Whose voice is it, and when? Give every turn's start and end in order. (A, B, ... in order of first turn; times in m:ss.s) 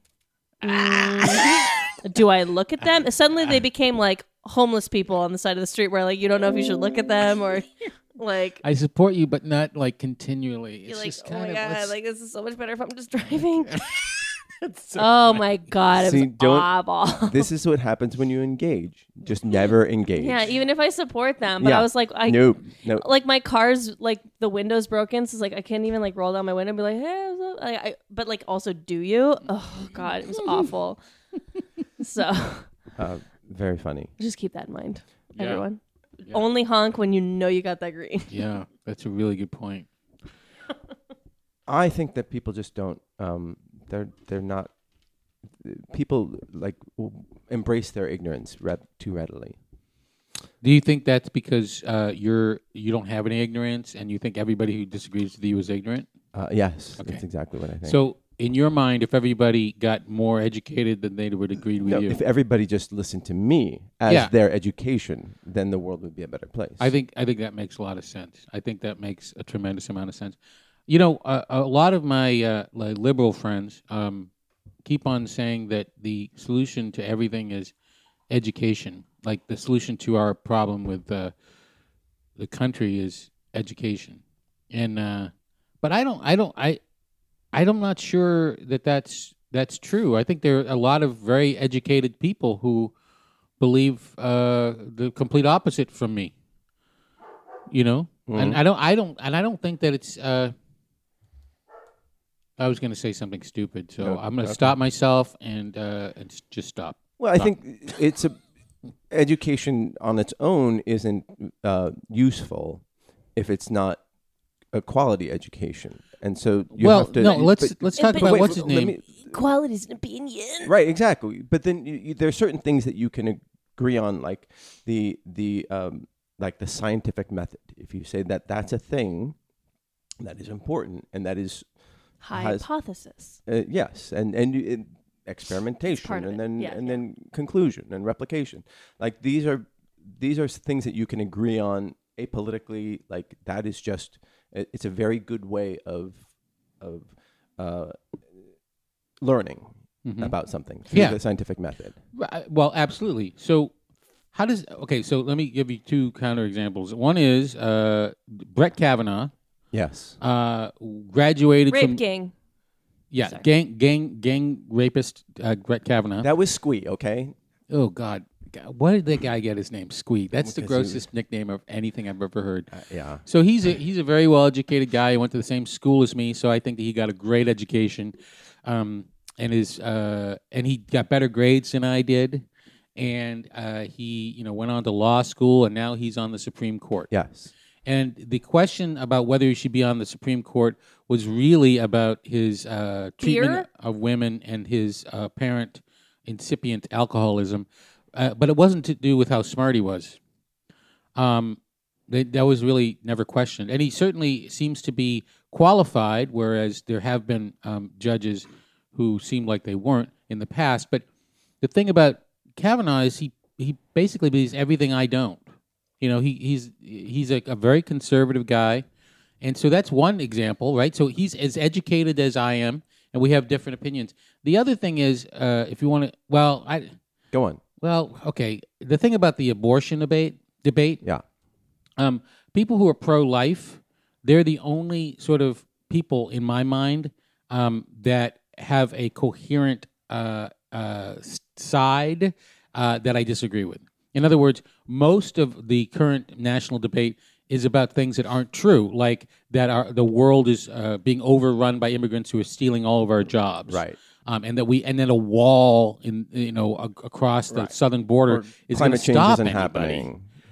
0:00.6-0:08.6 A
0:00.6-0:01.7 B
0:08.6-0:11.9 B
0:10.9-0:13.8 A
0:13.7-0:15.4 B
0:15.0-0:17.4 A
0:15.9-0:16.7 C
0:17.2-0:20.4 C
0:20.2-0:31.0 A
0:21.6-0:23.0 C
0:32.0-0:32.7 A
0:33.0-0:34.1 C
0:34.2-0:38.3 A
0:35.4-0:35.6 B
0:38.3-0:39.9 B
0:41.7-0:44.7 C
0:45.6-0:49.6 C
0:50.6-0:56.1 B
0:56.3-0:58.0 C
0:57.8-1:02.2 B
1:01.8-1:06.9 C
1:06.8-1:10.4 B
1:10.9-1:14.3 B
1:14.8-1:17.7 B
1:18.3-1:21.3 B
1:22.4-1:25.3 B
1:25.8-1:26.8 B
1:27.5-1:32.9 B
1:33.6-1:36.3 B
1:37.7-1:40.5 B
1:38.3-1:38.6 C
1:42.6-1:47.5 B
1:44.0-1:44.7 C
1:47.2-1:48.4 C
1:49.1-1:52.8 C
1:53.3-1:54.0 C
1:54.7-1:59.3 C
1:56.8-1:58.9 B
1:57.2-2:00.7 A
2:00.6-2:09.4 C
2:10.2-2:11.6 C
2:12.2-2:13.4 A
2:12.3-2:12.6 C
2:13.4-2:26.2 C
2:15.9-2:17.0 A
2:26.8-2:28.0 C
2:29.2-2:32.0 C
2:30.0-2:30.3 B
2:30.9-2:31.2 B
2:32.1-2:33.7 B
2:34.3-2:39.3 B
2:39.7-2:40.2 C
2:40.2-2:42.0 B
2:41.7-2:42.3 A
2:43.1-2:46.3 B
2:46.2-2:47.3 C
2:47.7-2:52.7 B
2:50.4-2:51.0 C
2:52.7-2:53.2 C
2:53.2-3:02.4 B
3:03.0-3:07.1 B
3:07.1-3:07.5 C
3:07.8-3:20.2 B
3:13.2-3:13.6 A
3:21.2-3:21.6 B
3:22.1-3:31.0 B
3:31.6-3:35.4 B
3:36.0-3:38.8 B
3:39.4-3:46.9 B
3:47.3-3:47.6 C
3:47.8-3:51.0 B
3:52.0-4:20.1 B
4:13.7-4:14.0 C
4:18.3-4:20.2 C